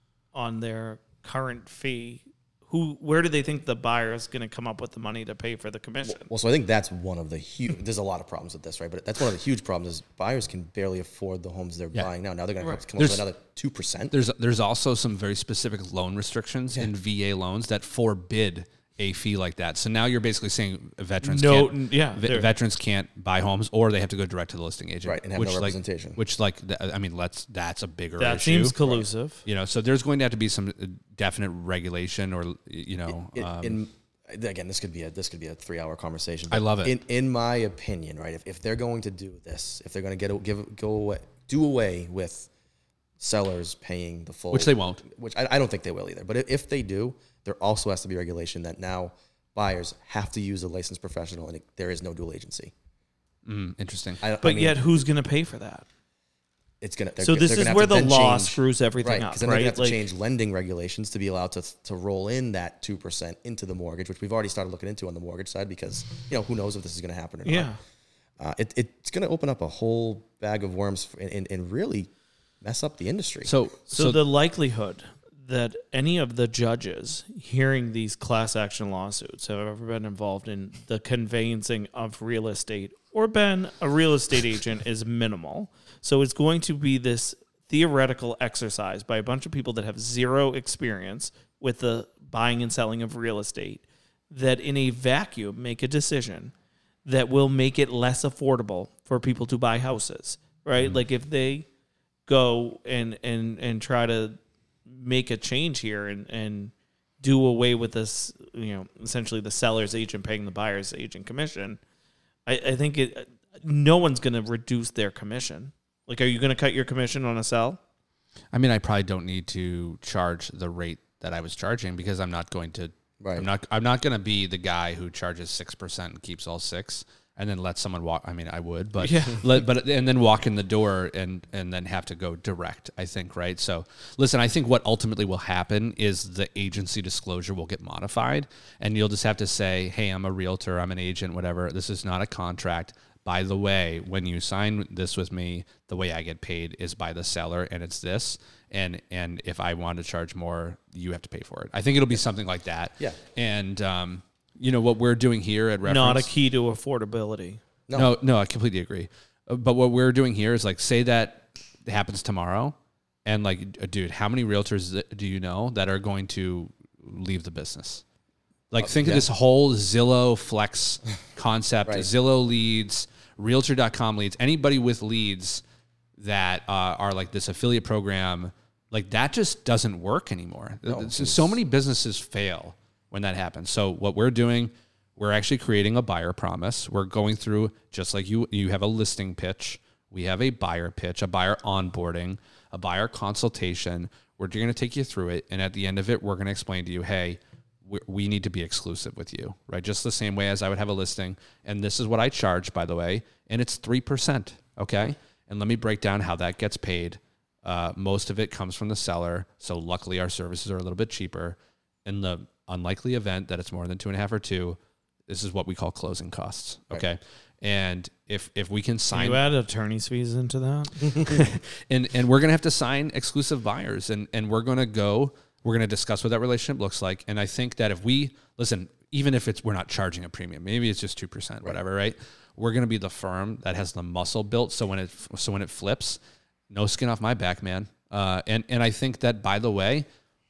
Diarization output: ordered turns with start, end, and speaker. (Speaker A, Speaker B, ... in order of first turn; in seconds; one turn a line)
Speaker A: 0.3-6.3
Speaker B: 6.0-14.2
Speaker C: 13.0-13.2
Speaker C: 14.1-28.8
Speaker A: 21.2-22.5
Speaker B: 25.0-26.2
Speaker A: 28.2-29.4
Speaker C: 29.4-33.8
Speaker B: 33.1-42.5
Speaker C: 36.5-37.0
Speaker B: 43.2-52.7
Speaker C: 44.5-45.0
Speaker C: 53.5-54.2
Speaker B: 54.2-54.8
Speaker A: 54.4-55.9
Speaker B: 56.8-67.7
Speaker A: 57.2-60.0
Speaker A: 67.5-67.8
Speaker B: 68.4-73.5
Speaker C: 73.5-74.2
Speaker A: 73.9-96.5
Speaker A: 97.1-101.7
Speaker A: 102.3-111.8
Speaker A: 112.5-117.8
Speaker C: 118.5-156.3
Speaker B: 123.2-123.5
Speaker A: 129.0-129.5
Speaker A: 155.8-157.6
Speaker B: 157.9-158.1
Speaker C: 157.9-168.0
Speaker C: 168.7-175.6
Speaker B: 168.8-169.2
Speaker C: 176.2-219.4
Speaker B: 180.9-181.6
Speaker A: 219.1-221.4
Speaker C: 221.2-236.2
Speaker C: 236.7-240.1